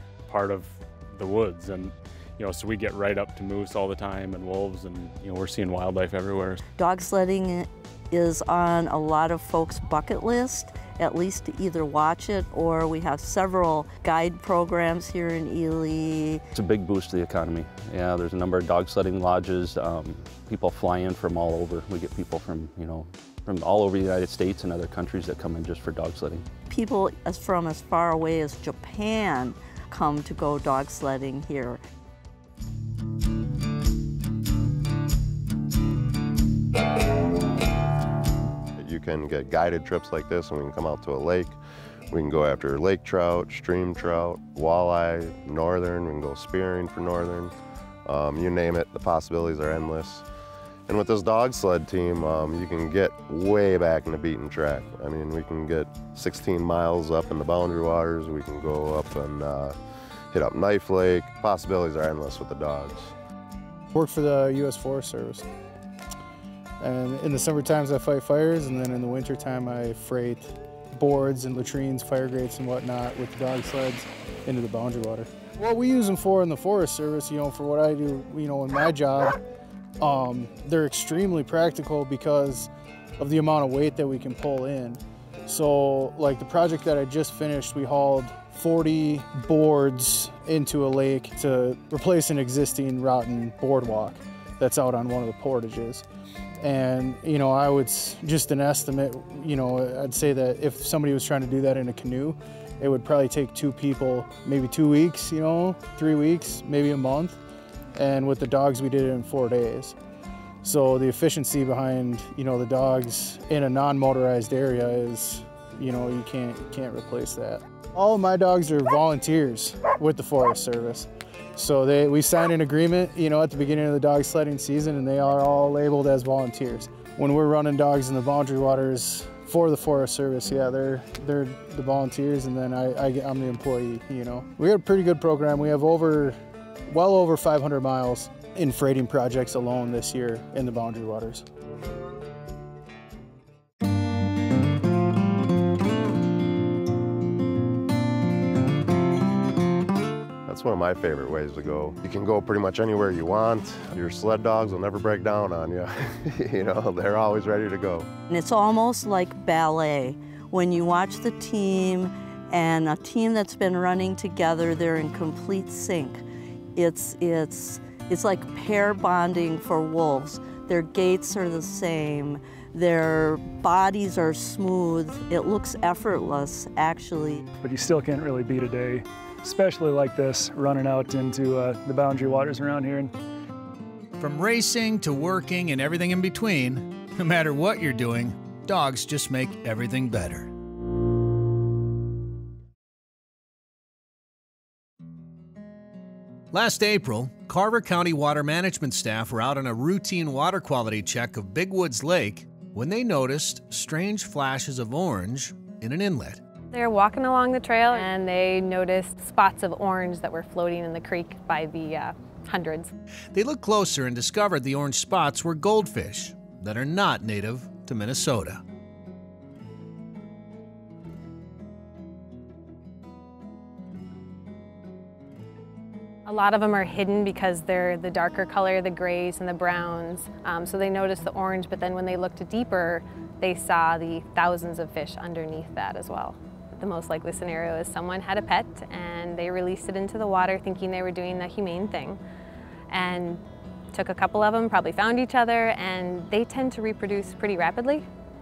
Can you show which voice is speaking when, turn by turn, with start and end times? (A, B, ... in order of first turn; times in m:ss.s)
0:00.3-0:06.6 A
0:06.8-0:16.4 B
0:16.6-0:26.5 C
0:26.7-0:31.8 B
0:38.8-0:41.6 D
0:42.1-0:47.6 D
0:48.1-0:50.3 D
0:50.9-0:59.8 D
1:00.3-1:03.1 D
1:03.9-1:05.4 E
1:06.8-1:19.4 E
1:20.0-1:36.0 E
1:36.6-1:47.4 E
1:48.0-1:50.0 E
1:50.6-2:21.5 E
2:30.5-2:38.1 D
2:38.3-2:46.2 B
2:46.8-2:57.5 B
2:57.6-3:03.1 F
3:04.2-3:10.5 G
3:16.5-3:26.4 G
3:26.7-3:32.9 H
3:33.3-3:38.6 G
3:46.3-4:02.2 H
4:02.9-4:03.4 H
4:03.9-4:08.1 H